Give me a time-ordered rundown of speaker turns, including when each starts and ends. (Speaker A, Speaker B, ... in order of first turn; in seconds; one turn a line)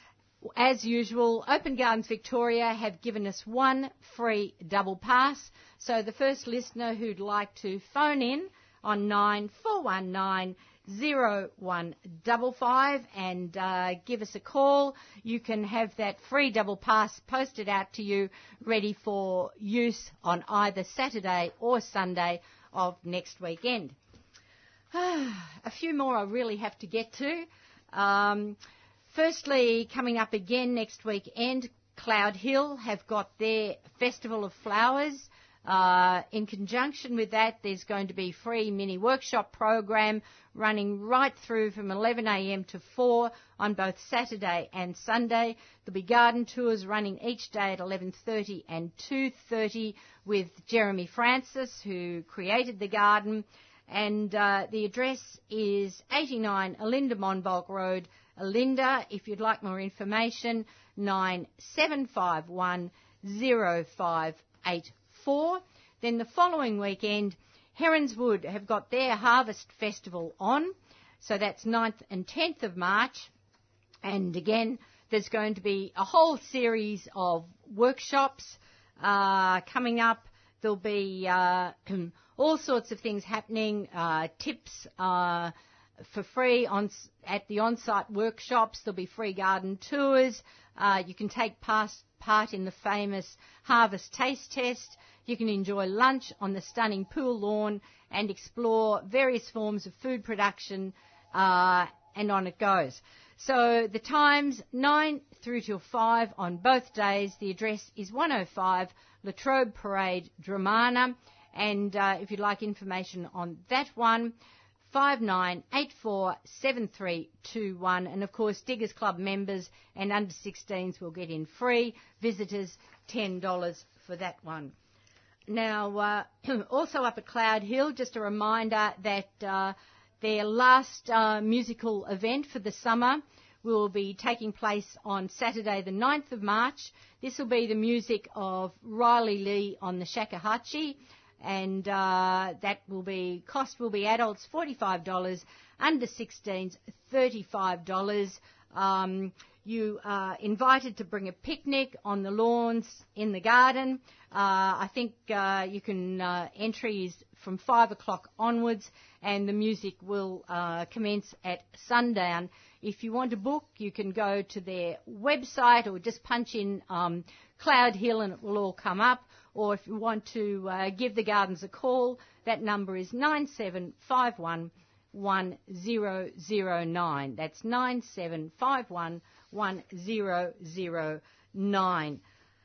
Speaker A: 0.5-23.9
Speaker A: 24.9-28.6
Speaker A: 29.1-73.3
Speaker A: 74.0-114.3
Speaker A: 114.8-124.7
Speaker A: 125.5-182.2